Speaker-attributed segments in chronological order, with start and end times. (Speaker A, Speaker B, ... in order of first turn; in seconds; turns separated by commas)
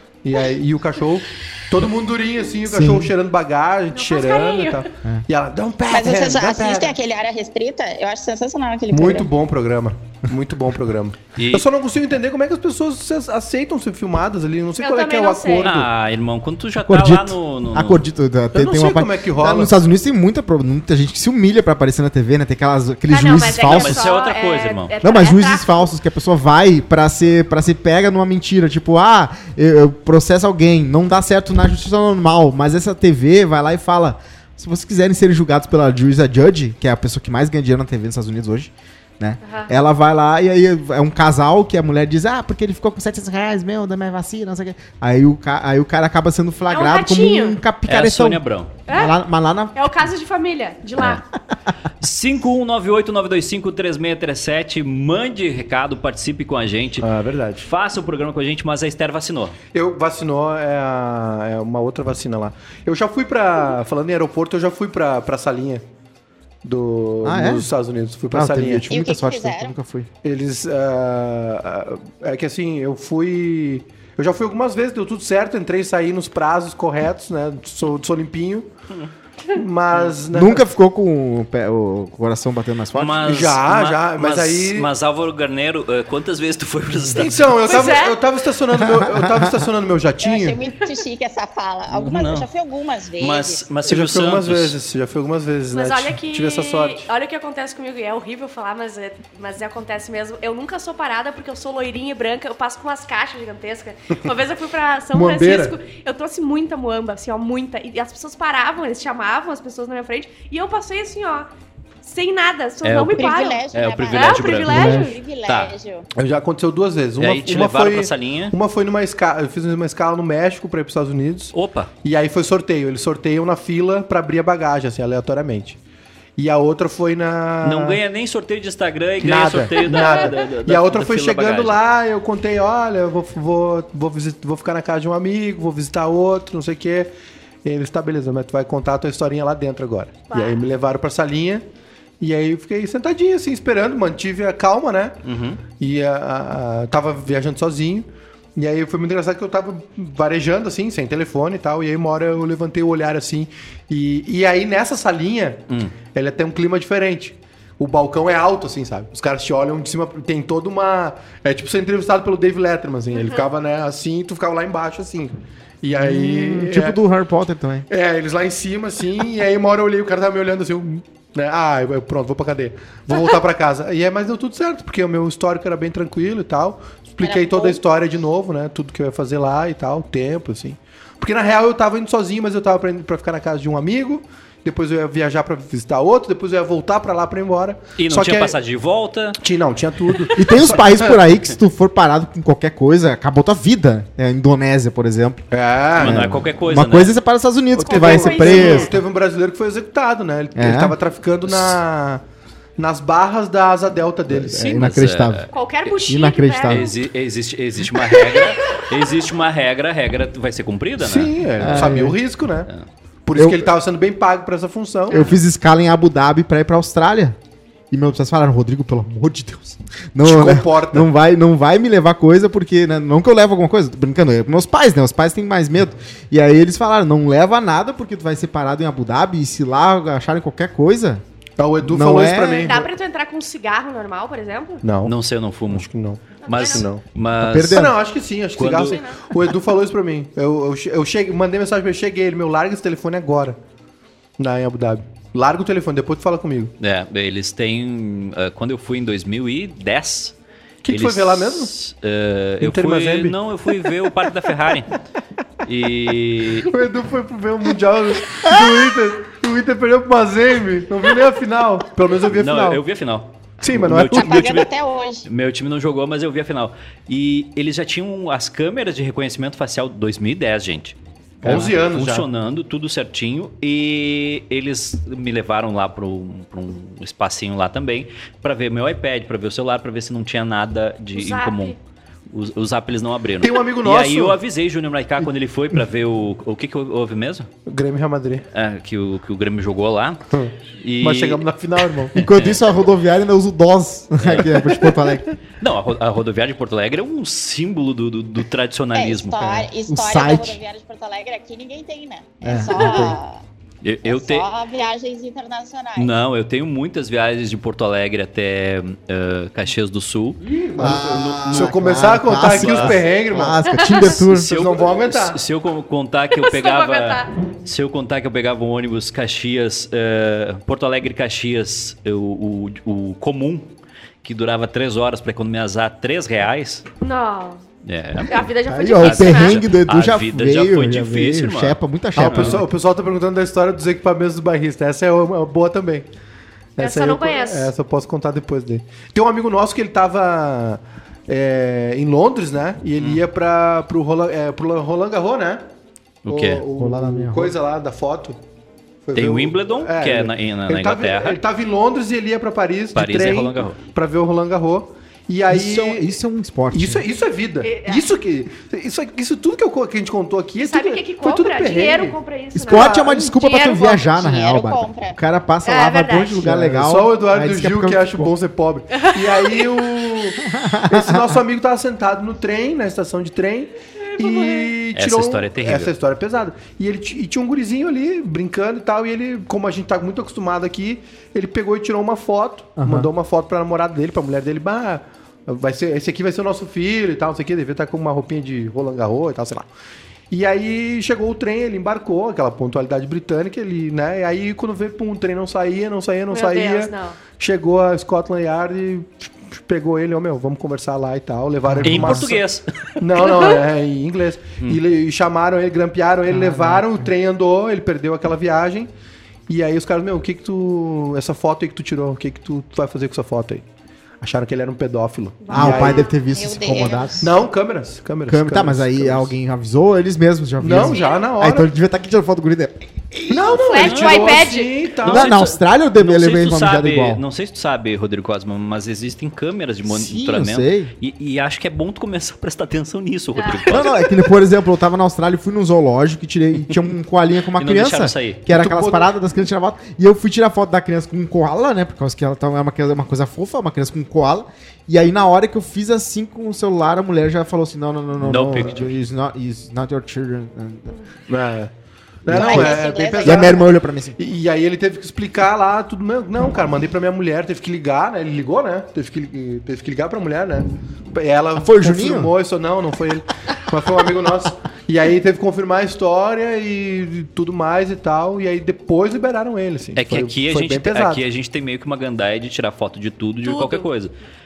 Speaker A: 0.2-7.0, Speaker B: 2.7-3.1, Speaker C: 3.9-4.9, Speaker D: 5.9-9.3, Speaker A: 8.9-15.9, Speaker E: 11.4-11.7, Speaker C: 14.8-15.7, Speaker E: 15.6-18.1, Speaker B: 16.9-24.0, Speaker A: 18.5-19.7, Speaker C: 23.1-25.9, Speaker E: 23.6-24.9, Speaker B: 25.0-50.1, Speaker C: 39.4-39.7, Speaker C: 46.7-47.6, Speaker E: 47.9-48.7, Speaker C: 48.9-49.2, Speaker C: 49.7-51.2, Speaker E: 51.0-51.2, Speaker E: 52.0-57.1, Speaker A: 57.0-57.7, Speaker E: 57.6-59.6, Speaker A: 59.7-65.8, Speaker A: 66.6-68.9, Speaker B: 67.2-67.7, Speaker B: 68.3-70.1, Speaker D: 68.9-69.8, Speaker A: 70.2-78.7, Speaker A: 79.5-80.6, Speaker B: 80.3-83.3, Speaker E: 82.9-87.7, Speaker A: 83.2-84.9, Speaker A: 87.1-90.6, Speaker C: 87.6-88.2, Speaker B: 88.8-89.6, Speaker D: 90.2-93.6, Speaker E: 91.9-92.5, Speaker E: 93.2-94.8, Speaker A: 93.8-97.1, Speaker C: 95.7-111.5, Speaker A: 105.1-105.8, Speaker C: 112.0-115.2, Speaker E: 112.8-114.9, Speaker D: 113.2-116.1, Speaker B: 114.7-115.2, Speaker E: 115.5-115.7, Speaker A: 116.2-125.8, Speaker E: 117.2-118.6, Speaker E: 121.5-121.9, Speaker A: 126.4-128.0, Speaker E: 127.6-131.8, Speaker A: 129.2-137.1, Speaker C: 129.8-130.3, Speaker A: 137.6-141.7, Speaker C: 140.3-140.7, Speaker A: 142.2-167.0, Speaker E: 145.2-145.6, Speaker E: 155.7-156.0, Speaker B: 165.9-167.9, Speaker A: 167.9-188.6, Speaker D: 177.2-177.8, Speaker E: 188.0-189.4, Speaker A: 189.4-191.2, Speaker B: 190.4-195.5, Speaker A: 195.5-196.3, Speaker E: 196.0-197.2, Speaker B: 196.0-199.0, Speaker A: 197.8-202.2, Speaker C: 197.8-198.9, Speaker B: 200.6-201.0, Speaker A: 202.8-204.6, Speaker B: 204.3-205.5, Speaker E: 204.5-205.9, Speaker C: 205.5-206.9, Speaker B: 206.1-206.9, Speaker E: 206.7-212.0, Speaker C: 208.3-208.8, Speaker A: 211.0-212.7, Speaker B: 211.6-212.2, Speaker A: 213.3-215.3, Speaker B: 213.4-213.7, Speaker B: 215.1-217.4, Speaker B: 217.9-231.2, Speaker A: 220.2-221.1, Speaker A: 231.6-232.9, Speaker B: 231.8-232.8, Speaker C: 232.6-234.8, Speaker A: 234.8-235.2, Speaker E: 235.1-235.9, Speaker A: 235.7-237.0, Speaker E: 236.4-237.9, Speaker C: 236.4-236.9, Speaker B: 237.4-237.9, Speaker A: 237.7-243.6, Speaker E: 238.6-239.0, Speaker C: 238.9-239.2, Speaker A: 244.4-246.7, Speaker E: 246.8-250.3, Speaker A: 250.8-251.7, Speaker E: 250.9-254.9, Speaker A: 252.6-253.4, Speaker E: 255.6-256.7, Speaker A: 256.6-262.8, Speaker E: 262.3-264.7, Speaker A: 263.6-264.6, Speaker D: 264.1-265.3, Speaker E: 265.2-281.8, Speaker A: 271.4-272.3, Speaker C: 281.2-281.8, Speaker E: 282.3-287.5, Speaker A: 283.4-284.4, Speaker A: 287.7-288.4, Speaker E: 288.5-290.2, Speaker A: 290.3-292.2, Speaker E: 290.8-291.4, Speaker B: 292.1-295.4, Speaker E: 292.2-292.6, Speaker E: 294.2-294.7, Speaker A: 294.8-295.1, Speaker E: 295.6-299.4, Speaker D: 298.9-303.4, Speaker B: 299.4-300.6, Speaker B: 302.4-303.2, Speaker E: 303.8-304.5, Speaker D: 304.1-306.2, Speaker E: 306.0-311.8, Speaker A: 310.4-315.4, Speaker B: 310.8-314.6, Speaker E: 312.4-313.0, Speaker E: 314.0-323.7, Speaker C: 316.4-317.3, Speaker E: 324.2-326.9, Speaker C: 327.0-327.6, Speaker E: 327.9-328.5, Speaker C: 328.2-329.6, Speaker B: 328.7-332.7, Speaker E: 329.0-332.6, Speaker A: 332.2-336.1, Speaker A: 336.8-345.6, Speaker C: 336.8-337.7, Speaker E: 346.2-346.6, Speaker A: 346.3-348.4, Speaker B: 346.8-347.6, Speaker A: 349.0-356.2, Speaker E: 349.1-351.4, Speaker E: 352.9-353.8, Speaker B: 355.5-357.1, Speaker A: 356.7-362.2, Speaker C: 357.6-358.1, Speaker C: 360.6-364.0, Speaker B: 362.6-368.3, Speaker A: 362.7-363.3, Speaker D: 363.9-365.2, Speaker C: 365.6-366.4, Speaker A: 366.4-389.7, Speaker C: 368.9-369.9, Speaker B: 370.4-371.4, Speaker C: 374.0-374.7, Speaker E: 374.9-375.9, Speaker B: 382.8-383.1, Speaker A: 390.3-402.4, Speaker C: 396.3-397.2, Speaker B: 401.6-402.3, Speaker E: 401.8-403.2, Speaker A: 403.0-408.9, Speaker B: 406.3-407.1, Speaker A: 409.5-413.6, Speaker A: 414.2-416.1, Speaker C: 415.4-416.1, Speaker B: 415.5-417.4, Speaker D: 416.3-417.3, Speaker A: 417.2-419.3, Speaker B: 418.3-423.6, Speaker A: 420.6-421.7, Speaker C: 420.8-421.2, Speaker A: 423.3-425.4, Speaker C: 423.5-424.7, Speaker E: 423.7-434.1, Speaker B: 425.1-427.2, Speaker B: 429.9-430.9, Speaker C: 433.4-434.1, Speaker B: 433.7-451.0, Speaker E: 437.6-438.4, Speaker A: 438.5-439.1, Speaker E: 448.2-448.9, Speaker A: 451.3-451.7, Speaker A: 452.2-471.2, Speaker B: 452.3-454.2, Speaker D: 452.3-453.7, Speaker B: 461.6-462.3, Speaker E: 470.0-474.1, Speaker C: 473.4-473.9